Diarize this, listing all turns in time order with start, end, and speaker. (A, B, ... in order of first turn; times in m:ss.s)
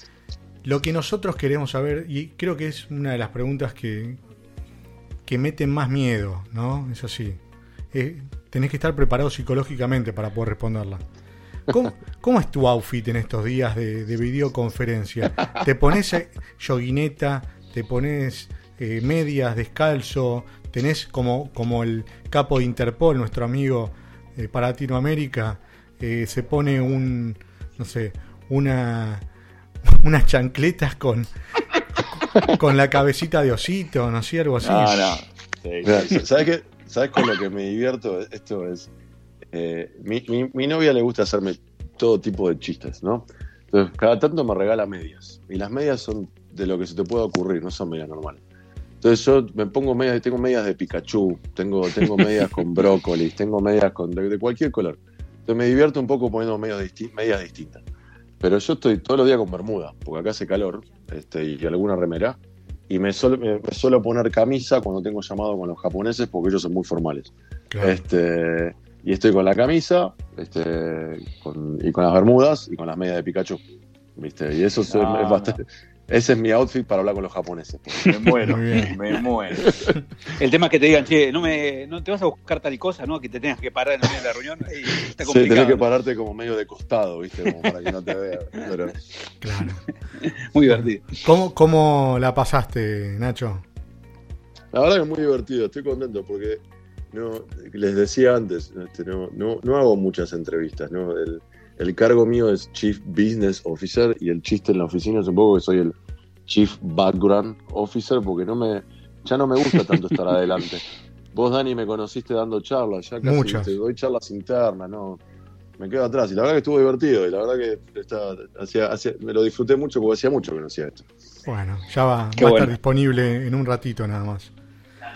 0:00.6-0:04.2 A
0:05.2-0:07.4 A
0:07.9-0:11.0 A
0:11.7-0:29.2 A
0:29.9-0:31.3 A
0:32.4-0:35.2 A
0:34.6-0:36.2 B
0:35.8-0:38.9 C
0:39.5-0:48.4 C
0:49.0-0:57.8 C
0:58.4-1:02.4 C
1:02.9-1:13.6 C
1:07.7-1:08.0 A
1:14.2-1:18.1 C
1:14.9-1:15.6 B
1:18.0-1:19.9 B
1:18.4-1:19.0 A
1:19.6-1:19.9 C
1:20.2-1:25.8 D
1:25.2-1:29.0 C
1:29.4-1:29.8 A
1:30.2-1:31.2 D
1:30.7-1:33.6 A
1:34.7-1:46.0 C
1:46.5-1:55.2 C
1:53.2-1:53.7 A
1:55.8-2:01.0 C
2:01.4-2:04.5 A
2:02.4-2:02.7 D